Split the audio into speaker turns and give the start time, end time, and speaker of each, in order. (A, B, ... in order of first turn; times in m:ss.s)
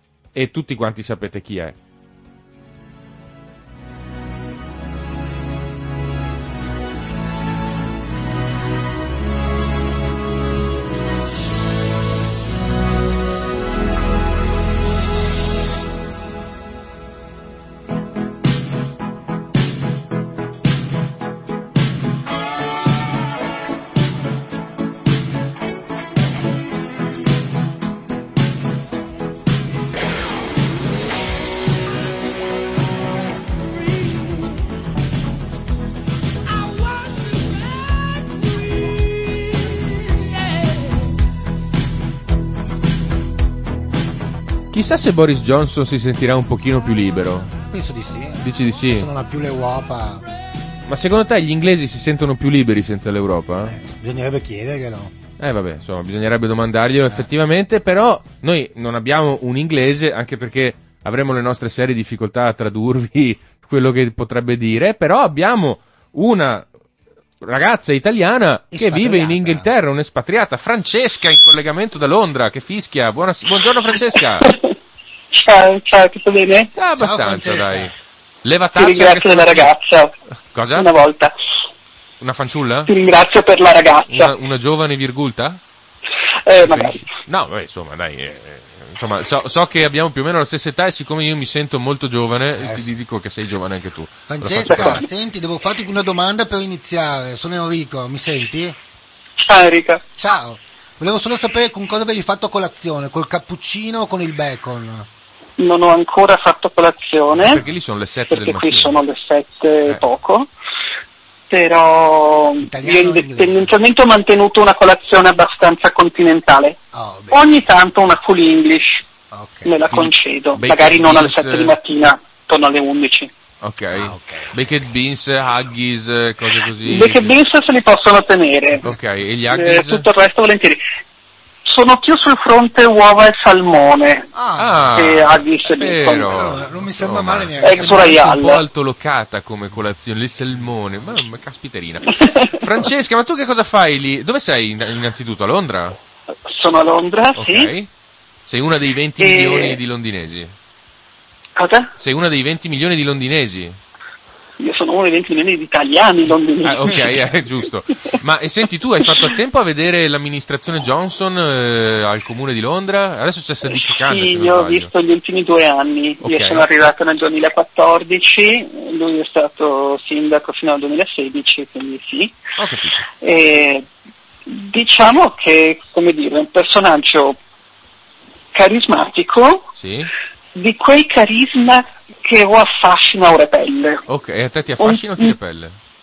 0:00.3-0:01.8 A
0:44.7-0:47.5 A
0:47.5-0:50.2 B
0:48.4-0:49.1 A
0:50.9-0:53.8 A
0:53.6-0:55.2 B
0:55.4-1:06.7 A
1:07.4-1:14.5 A
1:08.7-1:09.7 B
1:14.4-1:14.7 C
1:15.3-1:16.7 C
1:16.8-1:19.8 A
1:16.9-1:17.9 B
1:18.8-1:20.1 C
1:20.5-1:20.9 A
1:20.7-1:21.4 C
1:22.2-1:22.9 A
1:22.9-1:24.4 C
1:24.1-1:25.6 A
1:26.5-1:27.1 C
1:26.6-1:35.0 A
1:32.6-1:32.9 B
1:34.3-1:38.8 B
1:34.7-1:35.0 C
1:39.4-1:40.0 C
1:40.2-1:45.1 B
1:45.6-1:47.6 C
1:47.3-1:49.0 A
1:48.3-1:50.5 C
1:51.5-1:56.8 C
1:52.6-1:53.7 B
1:56.9-1:57.7 B
1:57.3-1:59.1 C
1:59.3-1:59.8 B
1:59.6-2:03.3 C
1:59.9-2:01.8 A
2:03.6-2:07.4 A
2:03.9-2:04.6 B
2:06.8-2:08.9 C
2:08.8-2:10.1 A
2:09.5-2:10.8 C
2:11.6-2:14.3 C
2:14.3-2:15.2 B
2:14.6-2:26.0 A
2:14.9-2:16.4 C
2:16.3-2:18.2 B
2:17.6-2:18.6 C
2:22.1-2:22.6 C
2:26.5-2:27.7 C
2:27.4-2:27.9 A
2:28.5-2:30.5 A
2:29.2-2:29.8 C
2:31.6-2:31.9 C
2:32.0-2:33.8 A
2:34.6-2:37.3 C
2:36.6-2:44.9 A
2:39.0-2:39.3 C
2:43.7-2:52.4 C
2:46.2-2:46.7 A
2:52.6-2:53.0 A
2:53.2-2:53.9 C
2:54.5-2:57.4 C
2:58.5-2:59.7 C
2:59.8-3:00.1 A
3:00.6-3:04.0 C
3:04.1-3:05.8 A
3:04.8-3:05.3 C